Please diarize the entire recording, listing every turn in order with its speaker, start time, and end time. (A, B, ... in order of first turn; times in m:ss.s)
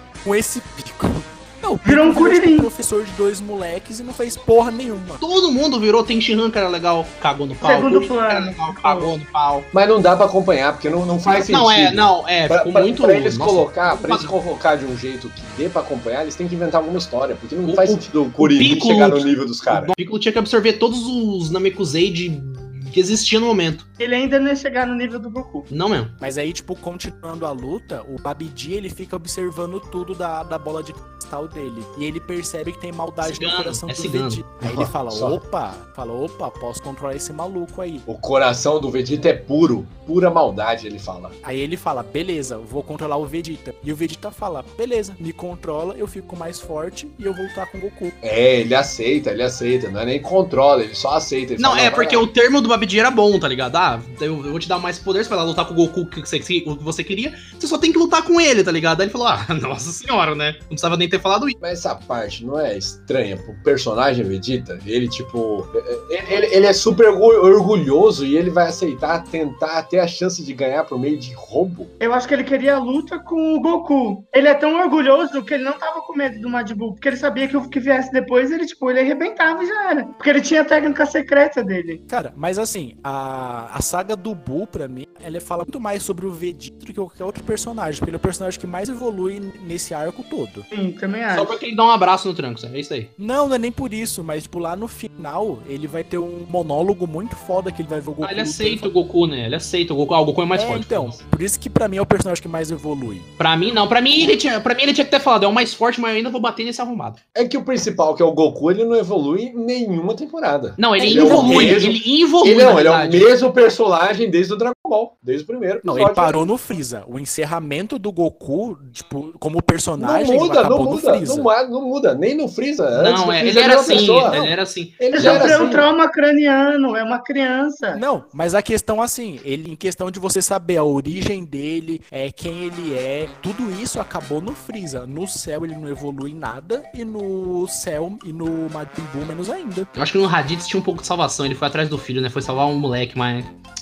0:00.2-0:05.2 A
0:01.8-0:02.7 B
0:05.2-0:09.7 C
0:07.6-0:09.1 B
0:09.7-0:19.9 D
0:11.2-0:14.3 C
0:17.6-0:23.8 C
0:24.0-0:25.7 B
0:25.7-0:26.1 C
0:26.2-0:38.0 A
0:33.2-0:34.4 C
0:34.6-0:35.4 D
0:38.0-0:41.3 D
0:41.4-0:48.1 A
0:48.2-0:52.3 D
0:51.6-1:01.6 C
1:01.6-1:11.9 D
1:12.0-1:22.0 B
1:22.1-1:30.6 A
1:30.7-1:31.6 B
1:31.3-1:33.1 C
1:33.2-1:38.9 A
1:38.2-1:41.2 C
1:40.5-1:43.3 A
1:43.4-1:47.2 C
1:47.3-1:56.4 D
1:50.8-1:53.3 C
1:51.0-1:51.8 A
1:55.8-2:01.5 A
2:00.0-2:05.9 D
2:02.9-2:05.7 C
2:05.1-2:08.0 B
2:07.9-2:19.9 A
2:20.0-2:23.5 C